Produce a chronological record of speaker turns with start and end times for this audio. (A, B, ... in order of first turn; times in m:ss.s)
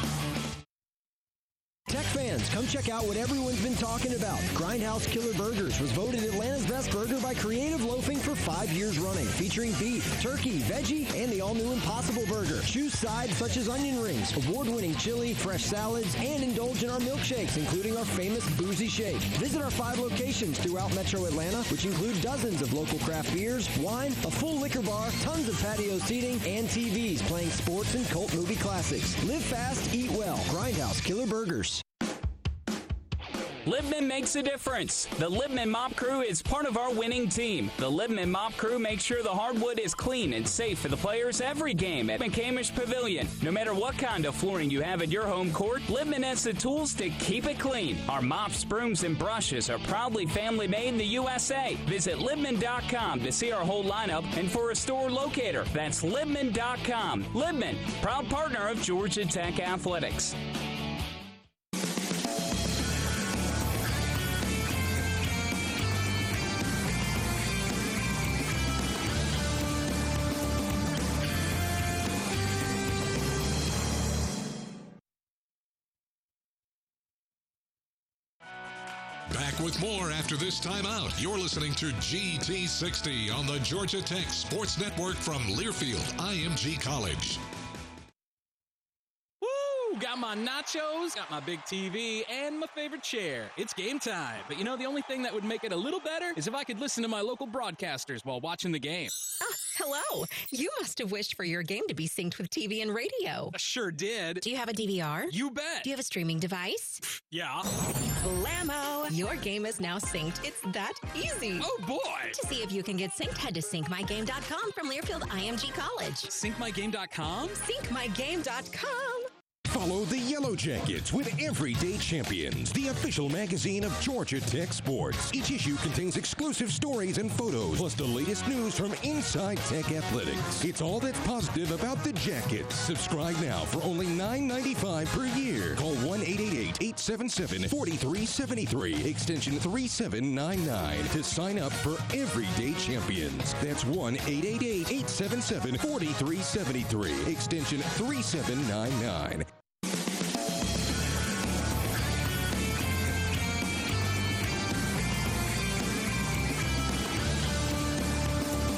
0:01.9-0:31.8 A
0:33.6-1:00.4 B
1:19.3-1:27.4 C
1:29.4-1:39.1 D
1:39.4-1:43.5 E
1:43.5-1:44.4 D
1:44.4-1:47.0 E
1:45.3-1:45.9 D
1:47.1-1:47.7 D
1:48.2-1:51.7 E
1:51.6-1:52.4 D
1:52.3-1:56.3 E
1:56.3-1:57.6 D
1:57.6-1:59.3 E
1:59.7-2:29.5 F